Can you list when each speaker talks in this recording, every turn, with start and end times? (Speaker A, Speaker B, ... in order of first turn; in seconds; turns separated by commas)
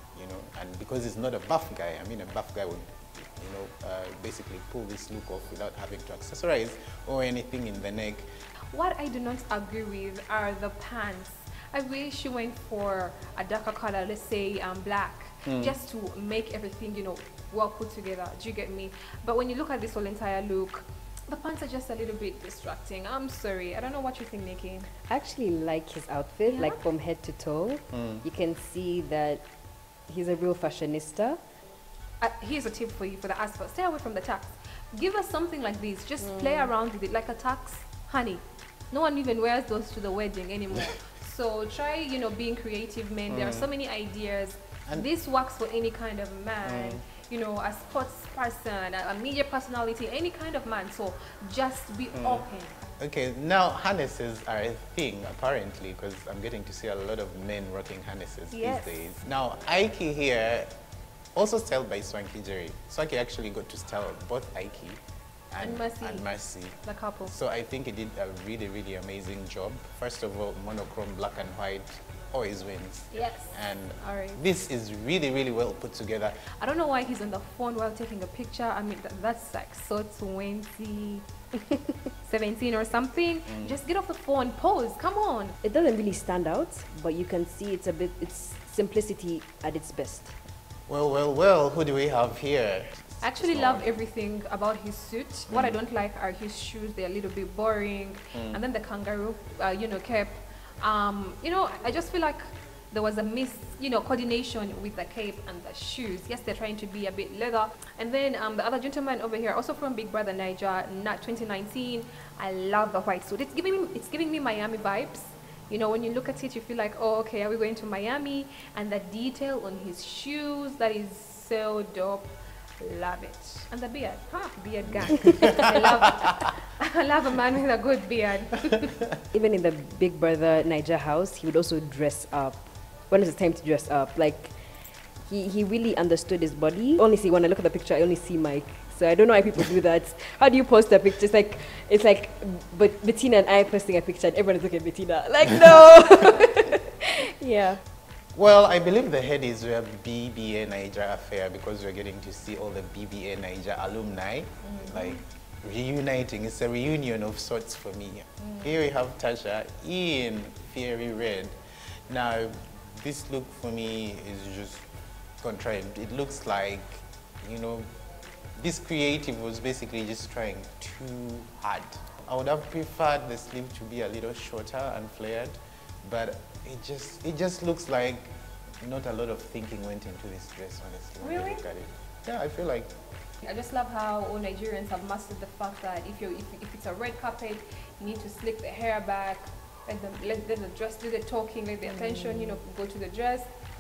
Speaker A: 0.1-8.3, Speaker B: 8.7-24.9, Speaker A: 15.5-15.7, Speaker C: 25.1-29.5, Speaker B: 26.5-26.8, Speaker A: 27.9-28.2, Speaker C: 30.1-31.4, Speaker B: 32.2-52.9, Speaker C: 36.2-36.7, Speaker A: 43.3-43.7, Speaker A: 46.6-47.0, Speaker A: 52.2-52.5, Speaker A: 53.0-60.8, Speaker B: 58.5-59.2, Speaker A: 61.4-76.5, Speaker B: 65.6-66.2, Speaker B: 66.8-67.3, Speaker B: 73.1-74.4, Speaker B: 76.6-81.2, Speaker B: 82.2-85.6, Speaker A: 83.5-83.8, Speaker C: 85.6-90.3, Speaker A: 90.9-93.9, Speaker B: 93.2-129.0, Speaker A: 95.5-95.8, Speaker A: 98.3-98.6, Speaker A: 125.4-126.5, Speaker C: 129.3-134.6, Speaker C: 135.2-147.8, Speaker A: 148.3-161.6, Speaker B: 154.7-155.2, Speaker A: 162.1-164.9, Speaker A: 165.4-167.9, Speaker A: 168.6-182.9, Speaker B: 181.2-181.6, Speaker B: 183.4-193.5, Speaker C: 191.9-192.6